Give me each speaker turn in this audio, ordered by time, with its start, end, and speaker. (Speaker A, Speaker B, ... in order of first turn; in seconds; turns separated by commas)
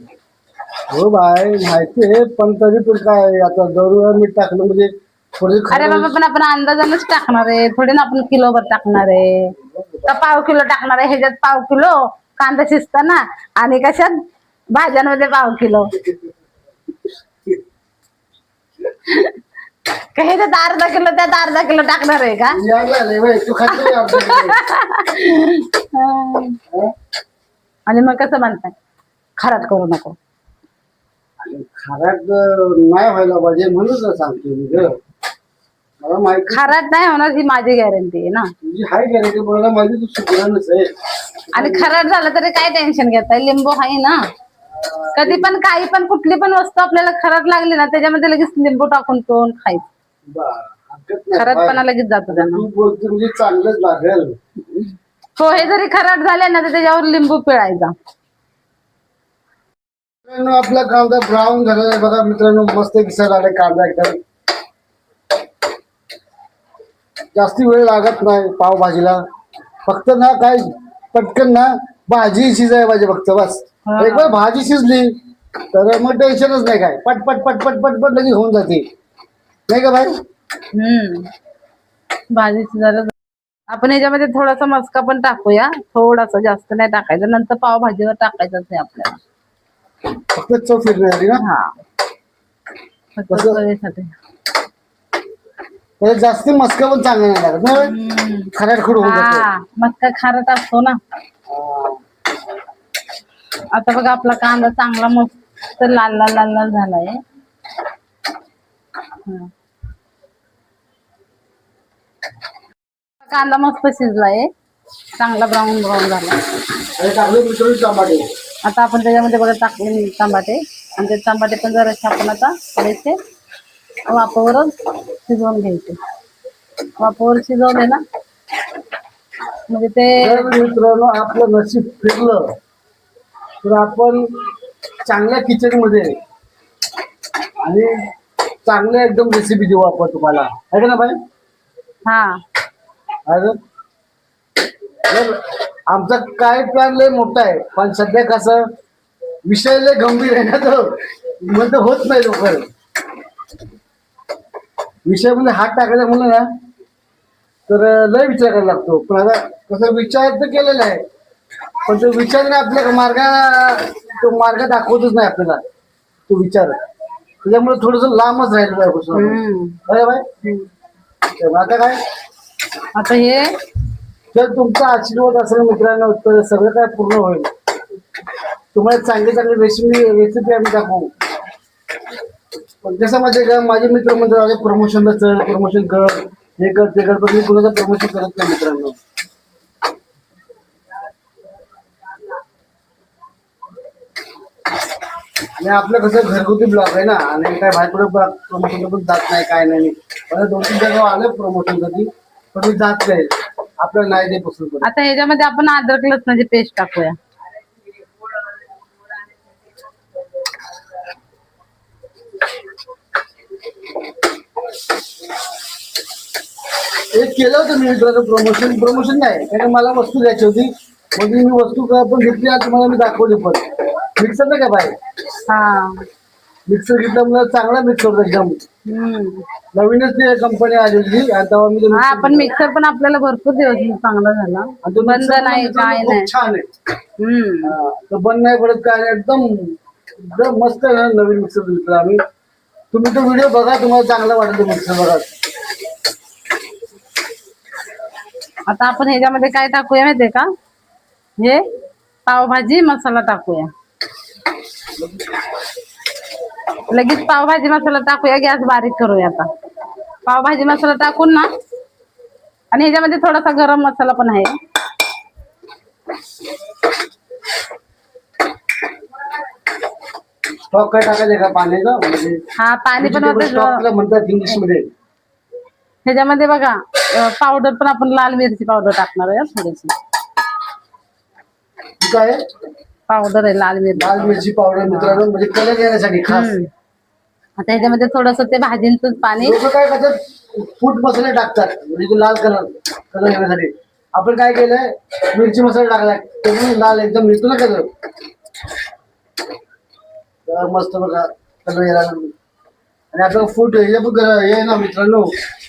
Speaker A: 0.9-6.2, Speaker B: 5.7-9.5, Speaker A: 9.7-10.2, Speaker B: 10.1-14.2, Speaker B: 14.7-15.9, Speaker B: 19.1-19.4, Speaker B: 20.0-22.6, Speaker A: 22.5-24.6, Speaker B: 23.7-26.6, Speaker B: 27.9-28.7, Speaker B: 29.4-30.2, Speaker A: 31.4-35.0, Speaker A: 36.0-36.7, Speaker B: 36.5-38.5, Speaker A: 38.6-40.9, Speaker A: 41.5-41.9, Speaker B: 41.5-44.2, Speaker A: 44.7-45.5, Speaker B: 45.1-49.9, Speaker A: 50.3-54.4, Speaker B: 51.4-52.6, Speaker B: 55.4-57.9, Speaker A: 60.2-64.2, Speaker A: 67.3-69.2, Speaker A: 69.9-75.2, Speaker B: 73.9-74.4, Speaker A: 75.7-78.9, Speaker A: 79.7-80.2, Speaker B: 80.7-81.3, Speaker B: 82.3-83.1, Speaker B: 83.7-89.2, Speaker A: 90.3-91.4, Speaker B: 91.4-91.8, Speaker B: 93.2-94.1, Speaker A: 93.3-93.6, Speaker A: 96.0-97.9, Speaker B: 97.7-101.0, Speaker A: 98.5-99.5, Speaker A: 101.5-102.0, Speaker B: 103.7-107.2, Speaker B: 109.3-109.5, Speaker B: 113.2-114.5, Speaker B: 115.2-116.4, Speaker A: 117.0-118.3, Speaker B: 118.7-123.2, Speaker B: 124.1-124.7, Speaker B: 125.2-126.0, Speaker B: 127.0-128.0, Speaker B: 129.7-130.5, Speaker A: 130.2-132.5, Speaker A: 133.6-134.3, Speaker A: 135.1-136.2, Speaker A: 137.6-137.9, Speaker A: 138.7-141.2, Speaker B: 142.1-142.4, Speaker A: 143.3-143.6, Speaker A: 145.1-148.7, Speaker A: 149.5-152.7, Speaker A: 155.1-156.5, Speaker A: 157.7-161.1, Speaker A: 161.8-165.6, Speaker A: 166.3-166.8, Speaker A: 167.4-170.3, Speaker B: 169.1-169.8, Speaker A: 171.3-172.0, Speaker B: 172.9-173.5, Speaker A: 174.3-177.5, Speaker A: 178.7-181.1, Speaker A: 182.8-189.0, Speaker A: 195.6-204.9, Speaker B: 204.8-207.2, Speaker A: 217.1-225.0, Speaker B: 225.5-226.0, Speaker A: 226.7-228.6, Speaker B: 228.9-229.4, Speaker A: 229.7-232.6, Speaker B: 231.9-236.3, Speaker A: 234.8-236.7, Speaker B: 237.2-237.8, Speaker A: 237.6-242.2, Speaker A: 242.9-245.3, Speaker B: 248.7-250.5, Speaker B: 251.4-251.6, Speaker B: 252.3-253.7, Speaker B: 256.9-259.5, Speaker B: 260.3-261.5, Speaker B: 262.7-264.6, Speaker A: 270.7-272.4, Speaker B: 272.6-273.8, Speaker A: 273.0-274.9, Speaker B: 276.1-279.9, Speaker A: 282.0-282.4, Speaker B: 283.1-284.4, Speaker A: 283.9-286.5, Speaker B: 286.3-286.7, Speaker B: 287.6-289.6, Speaker A: 289.4-297.9, Speaker A: 300.5-302.3, Speaker A: 303.1-305.3